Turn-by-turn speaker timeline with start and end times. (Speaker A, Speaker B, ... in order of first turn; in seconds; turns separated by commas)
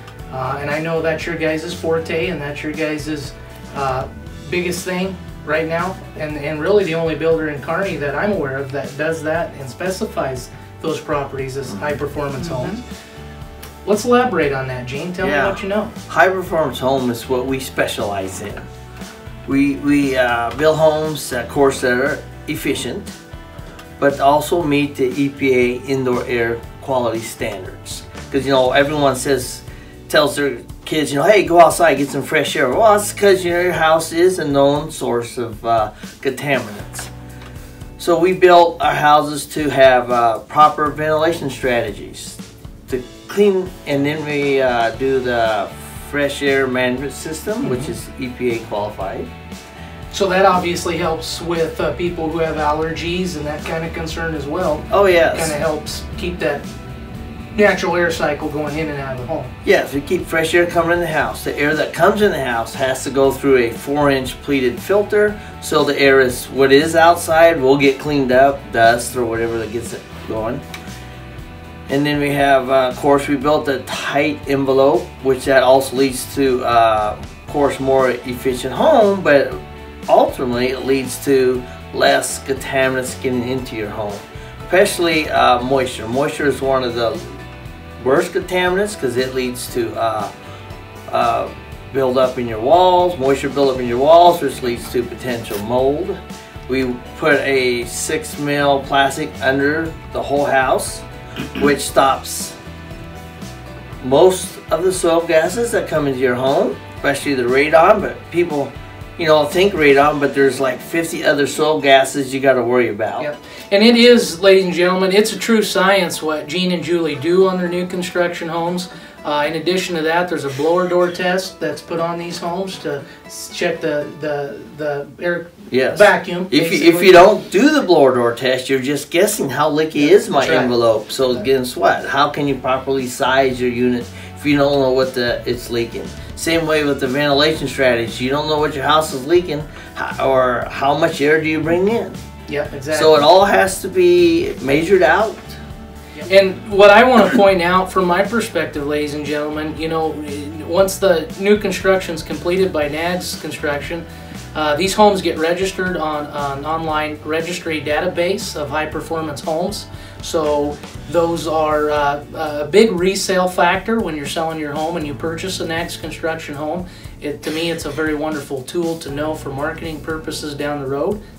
Speaker A: 0.3-12.8, Speaker B: 11.7-12.0, Speaker A: 13.8-15.9, Speaker B: 15.2-18.7, Speaker B: 19.5-23.1, Speaker B: 24.0-37.1, Speaker B: 38.0-49.3, Speaker A: 47.6-47.9, Speaker A: 50.1-56.6, Speaker B: 54.9-55.6, Speaker A: 57.5-59.5, Speaker B: 59.6-70.6, Speaker B: 71.9-87.4, Speaker B: 88.0-90.3, Speaker B: 91.1-101.0, Speaker B: 101.6-102.6, Speaker B: 104.0-113.3, Speaker A: 113.2-127.2, Speaker B: 125.7-142.2, Speaker A: 130.3-130.7, Speaker A: 142.5-143.2, Speaker B: 142.9-145.6, Speaker A: 146.2-171.2